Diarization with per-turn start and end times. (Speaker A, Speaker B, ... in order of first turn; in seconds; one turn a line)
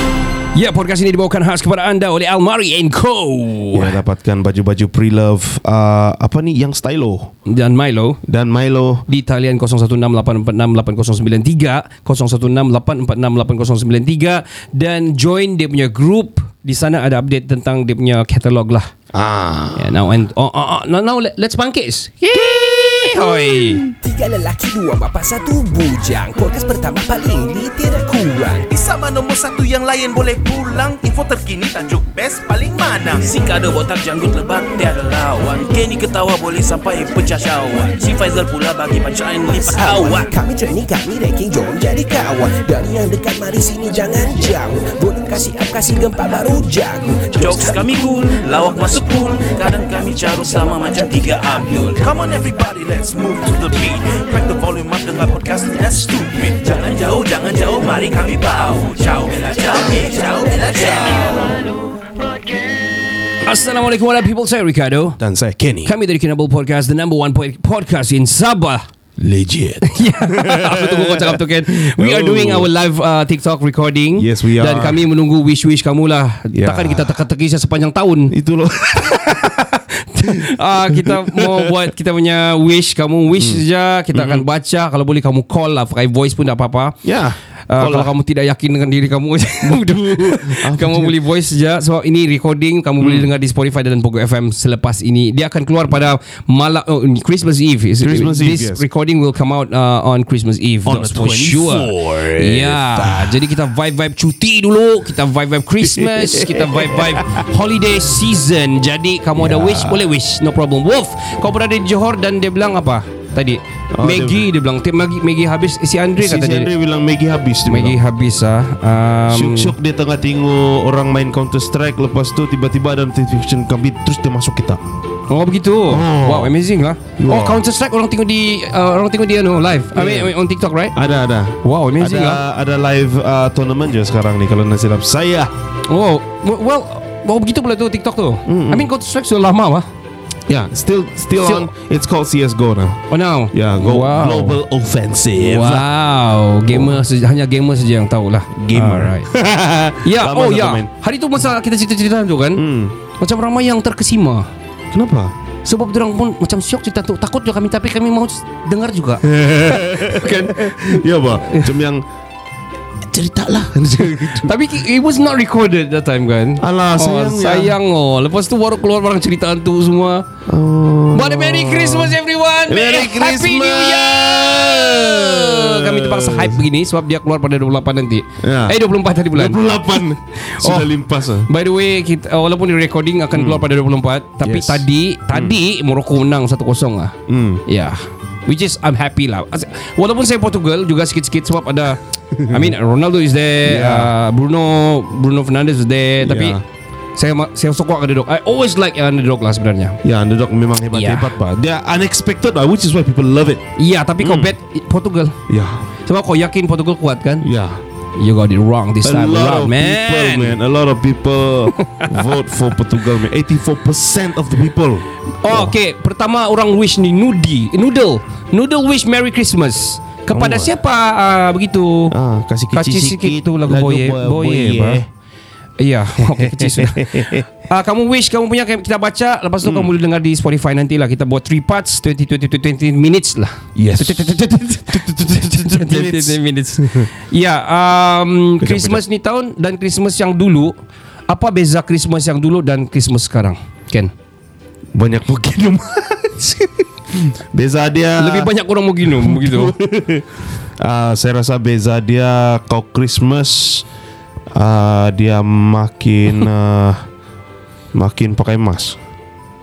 Speaker A: 0.5-4.0
Speaker B: 3.7-7.3
Speaker A: 7.5-8.2
Speaker B: 8.2-9.1
Speaker A: 9.1-18.9
Speaker B: 19.1-20.0
Speaker A: 19.8-23.9
Speaker B: 22.5-23.8
Speaker C: 24.0-28.6
Speaker D: 25.3-40.5
Speaker C: 39.9-47.7
Speaker D: 45.4-45.9
Speaker D: 47.1-61.6
Speaker A: 63.4-65.2
Speaker B: 65.2-65.9
Speaker A: 65.8-68.9
Speaker B: 69.2-72.7
Speaker A: 69.8-78.3
Speaker B: 74.2-75.0
Speaker B: 76.5-77.2
Speaker B: 78.3-79.5
Speaker A: 79.0-87.0
Speaker B: 80.3-81.9
Speaker B: 84.1-84.5
Speaker B: 87.0-88.1
Speaker A: 87.7-116.7
Speaker B: 89.6-91.2
Speaker B: 93.0-93.3
Speaker B: 98.0-98.8
Speaker B: 100.8-103.5
Speaker B: 105.8-107.5
Speaker B: 109.4-110.0
Speaker B: 113.9-114.5
Speaker B: 116.2-118.0
Speaker A: 117.7-119.7
Speaker B: 119.3-124.8
Speaker A: 125.3-131.0
Speaker B: 125.9-126.6
Speaker B: 127.2-127.6
Speaker B: 129.9-130.3
Speaker B: 130.9-135.5
Speaker A: 131.6-132.4
Speaker A: 135.9-139.9
Speaker B: 138.5-138.9
Speaker B: 140.5-143.0
Speaker A: 141.4-141.7
Speaker A: 143.1-144.6
Speaker B: 143.5-145.9
Speaker A: 145.4-149.3
Speaker B: 146.7-147.0
Speaker B: 148.5-150.9
Speaker A: 150.0-152.6
Speaker B: 152.6-152.9
Speaker A: 153.2-154.5
Speaker B: 154.9-155.3
Speaker A: 155.7-161.7
Speaker B: 159.2-162.0
Speaker B: 163.1-164.6
Speaker A: 164.3-170.2
Speaker B: 166.6-167.8
Speaker B: 170.5-176.7
Speaker A: 171.1-187.1
Speaker B: 178.4-178.8
Speaker B: 179.3-181.5
Speaker B: 183.3-183.7
Speaker B: 184.4-185.6
Speaker B: 187.3-187.6
Speaker A: 187.7-196.6
Speaker B: 192.3-192.7
Speaker B: 193.6-194.1
Speaker B: 196.2-196.6
Speaker A: 197.2-200.0
Speaker B: 200.0-203.7
Speaker A: 200.9-201.3
Speaker A: 203.8-205.4
Speaker B: 204.2-204.5
Speaker B: 205.5-205.9
Speaker A: 206.1-207.5
Speaker B: 207.4-207.8
Speaker A: 208.2-210.6
Speaker B: 209.0-215.8
Speaker A: 211.8-212.3
Speaker A: 215.4-222.2
Speaker B: 220.3-220.7
Speaker B: 222.1-225.1
Speaker A: 222.7-225.0
Speaker A: 225.8-240.7
Speaker B: 226.2-227.4
Speaker B: 229.6-229.9
Speaker B: 233.8-237.1
Speaker B: 238.6-239.0
Speaker A: 241.3-244.1
Speaker B: 244.9-248.5
Speaker A: 248.2-249.8
Speaker B: 249.0-253.8
Speaker B: 254.5-257.1
Speaker B: 257.9-259.0